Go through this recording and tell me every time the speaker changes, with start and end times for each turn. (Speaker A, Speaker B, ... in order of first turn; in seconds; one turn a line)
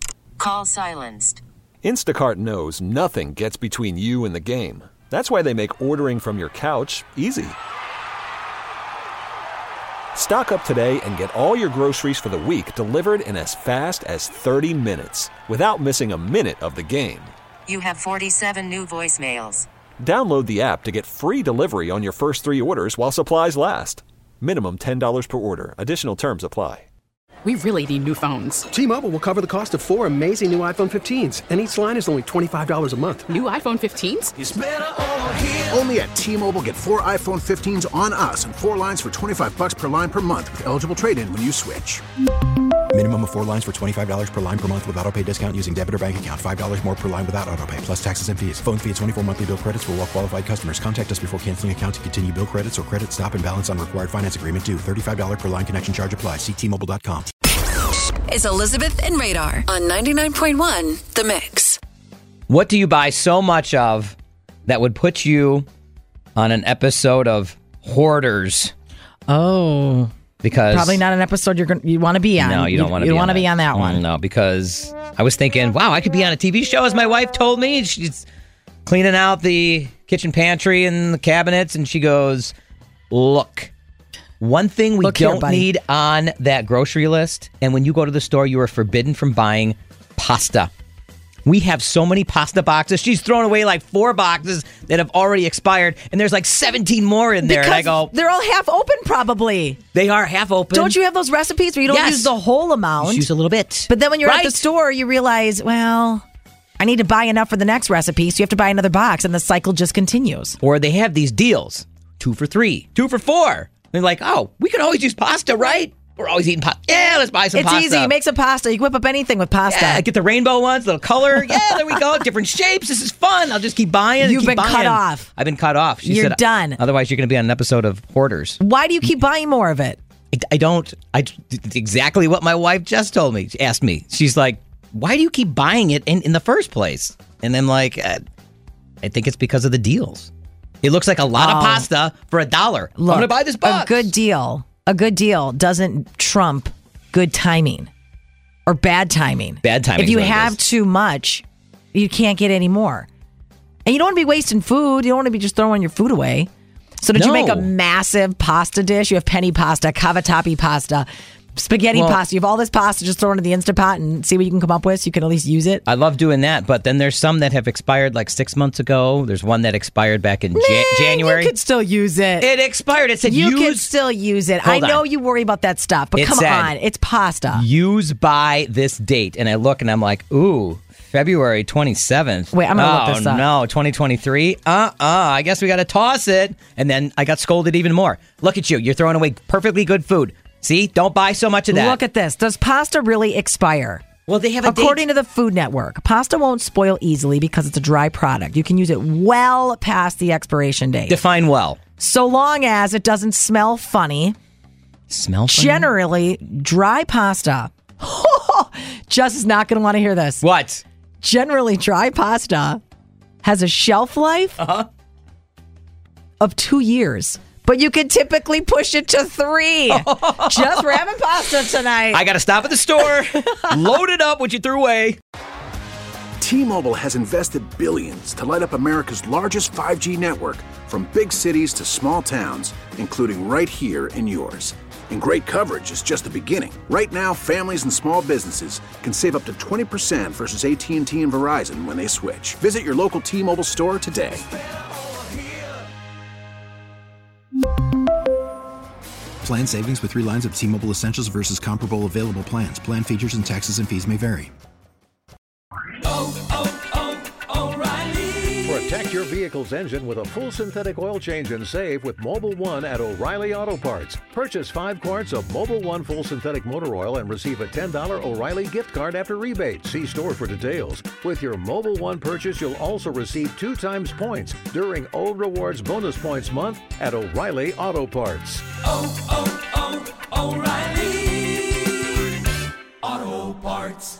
Speaker A: 0.4-1.4
Speaker B: 1.8-7.6
Speaker B: 10.2-17.3
Speaker A: 17.7-19.7
Speaker B: 20.0-26.9
Speaker C: 27.4-28.7
Speaker D: 28.7-33.3
Speaker C: 33.3-34.3
Speaker E: 34.4-42.0
Speaker F: 42.9-57.3
Speaker G: 58.2-61.8
Speaker H: 62.5-64.2
Speaker H: 64.7-65.7
Speaker H: 66.4-68.7
Speaker I: 69.3-70.1
Speaker H: 70.4-71.0
Speaker I: 70.7-74.0
Speaker H: 72.4-78.3
Speaker H: 78.9-82.5
Speaker H: 83.1-83.7
Speaker H: 84.4-90.7
Speaker I: 85.0-85.7
Speaker H: 91.5-98.1
Speaker I: 97.4-99.8
Speaker H: 99.9-101.0
Speaker I: 100.7-103.3
Speaker H: 101.9-102.3
Speaker H: 103.0-104.6
Speaker I: 103.9-106.2
Speaker I: 106.8-110.6
Speaker H: 110.6-118.1
Speaker I: 117.5-120.0
Speaker H: 119.7-128.6
Speaker I: 124.2-125.3
Speaker I: 126.0-126.8
Speaker I: 128.6-130.0
Speaker H: 130.3-138.2
Speaker H: 139.0-140.3
Speaker H: 140.8-144.1
Speaker I: 141.4-141.9
Speaker I: 143.0-147.9
Speaker I: 148.7-153.1
Speaker H: 149.6-150.6
Speaker I: 153.8-156.5
Speaker I: 157.0-165.8
Speaker H: 157.2-157.7
Speaker H: 161.9-162.2
Speaker H: 165.9-171.6
Speaker I: 170.6-172.5
Speaker H: 172.4-173.9
Speaker I: 173.2-177.7
Speaker H: 174.6-175.1
Speaker H: 176.2-176.7
Speaker H: 177.5-192.0
Speaker I: 182.5-183.5
Speaker I: 191.7-194.1
Speaker H: 194.3-195.0
Speaker I: 194.7-201.2
Speaker H: 201.1-201.8
Speaker I: 202.0-204.4
Speaker H: 205.1-205.9
Speaker I: 205.5-210.4
Speaker H: 210.4-210.8
Speaker I: 211.2-212.8
Speaker I: 213.4-214.6
Speaker H: 214.6-214.9
Speaker I: 216.4-222.2
Speaker H: 219.9-221.0
Speaker H: 222.1-225.2
Speaker E: 226.4-244.4
Speaker F: 249.4-254.5
Speaker J: 258.6-278.6